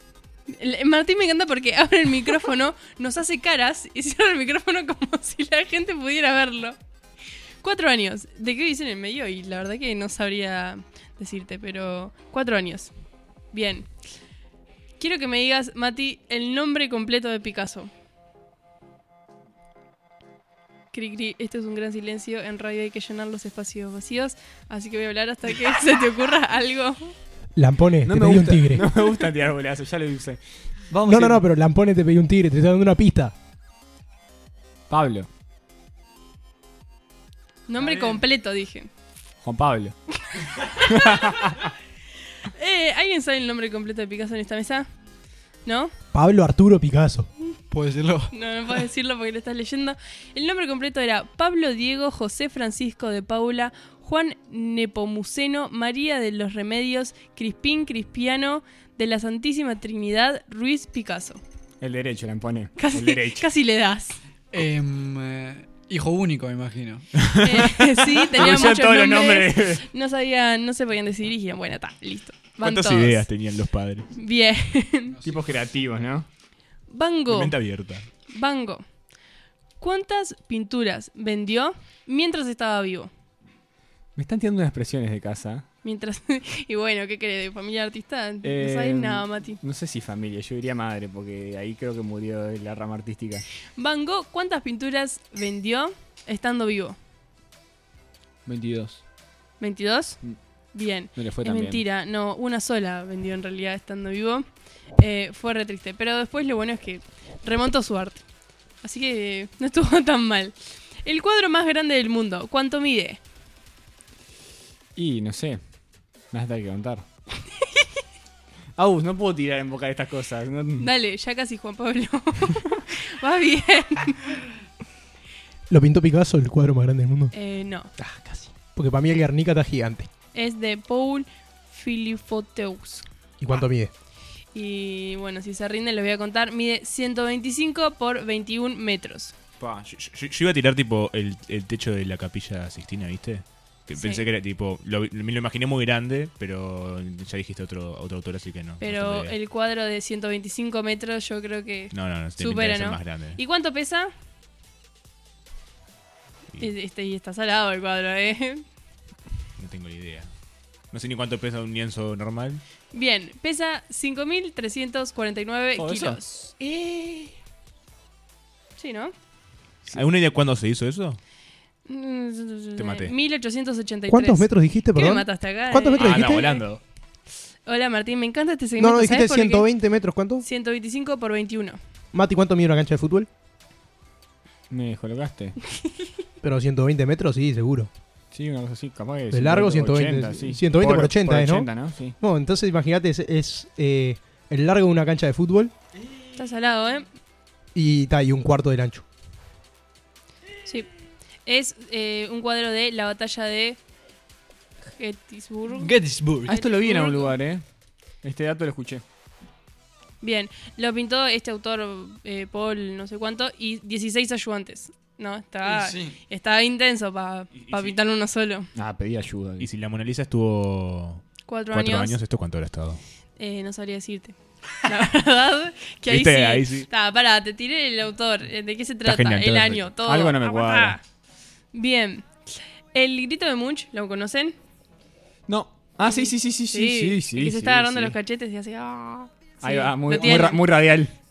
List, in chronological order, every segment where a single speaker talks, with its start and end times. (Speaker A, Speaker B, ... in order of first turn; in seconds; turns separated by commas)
Speaker A: 0.5-6.8, Speaker A: 7.6-12.9, Speaker A: 13.5-13.9, Speaker A: 15.0-17.9, Speaker A: 20.9-27.1, Speaker B: 27.6-28.9, Speaker C: 28.0-31.4, Speaker B: 31.1-33.3, Speaker C: 34.9-35.3, Speaker A: 37.7-38.9, Speaker C: 39.4-40.0, Speaker A: 40.3-41.6, Speaker C: 40.8-41.7, Speaker A: 42.5-44.9, Speaker A: 45.6-45.9, Speaker B: 46.1-47.3, Speaker D: 47.7-48.3, Speaker A: 48.3-61.4, Speaker C: 61.8-63.5, Speaker A: 62.8-64.2, Speaker D: 64.5-67.2, Speaker C: 67.2-69.8, Speaker A: 67.4-73.3, Speaker E: 72.6-74.1, Speaker A: 74.2-75.2, Speaker C: 75.2-76.3, Speaker A: 76.9-77.6, Speaker E: 77.3-78.1, Speaker A: 78.3-78.8, Speaker A: 79.8-83.1, Speaker C: 84.2-85.7, Speaker A: 85.8-89.6, Speaker C: 88.4-93.5, Speaker A: 93.8-97.0, Speaker C: 98.5-99.0, Speaker A: 99.6-100.2, Speaker A: 100.7-104.5, Speaker C: 101.2-101.8, Speaker A: 105.0-108.2, Speaker A: 108.8-110.5, Speaker A: 111.0-113.2, Speaker C: 115.0-115.6, Speaker C: 116.3-117.0, Speaker A: 117.6-117.9, Speaker C: 118.8-120.9, Speaker A: 120.8-124.4, Speaker B: 125.7-127.3, Speaker A: 127.3-127.9, Speaker C: 128.0-128.5, Speaker B: 128.8-130.1, Speaker A: 130.3-133.1, Speaker B: 133.4-133.9, Speaker A: 134.5-139.3, Speaker E: 139.6-149.4, Speaker A: 143.9-144.3, Speaker A: 148.8-154.1, Speaker E: 151.9-153.4, Speaker A: 156.6-158.6, Speaker E: 159.6-160.3, Speaker E: 160.9-162.6, Speaker A: 162.9-166.5, Speaker C: 165.8-167.3, Speaker A: 168.8-169.1, Speaker E: 169.9-171.2, Speaker A: 171.9-176.6, Speaker E: 172.8-173.1, Speaker B: 174.1-176.5, Speaker C: 176.0-176.8, Speaker E: 176.3-176.6, Speaker A: 177.7-179.7, Speaker B: 178.8-180.4, Speaker A: 180.4-181.8, Speaker B: 182.1-183.3, Speaker C: 184.7-185.6, Speaker B: 186.4-187.9, Speaker C: 188.3-192.2, Speaker B: 189.3-191.7, Speaker B: 192.2-195.7, Speaker A: 196.3-197.1, Speaker B: 197.8-199.1, Speaker A: 201.5-203.8, Speaker A: 204.9-205.9, Speaker D: 205.7-206.6, Speaker A: 206.5-207.3, Speaker C: 206.5-207.6, Speaker C: 208.2-209.0, Speaker A: 210.2-218.7, Speaker D: 215.7-216.2, Speaker E: 217.6-217.9, Speaker C: 218.8-219.7, Speaker E: 219.6-223.0, Speaker A: 221.5-222.2, Speaker A: 223.4-231.0, Speaker E: 226.1-226.9, Speaker E: 229.0-229.9, Speaker C: 230.1-231.0, Speaker A: 231.7-232.3, Speaker A: 232.9-234.6, Speaker C: 235.5-238.2, Speaker A: 236.0-240.7, Speaker C: 239.6-241.1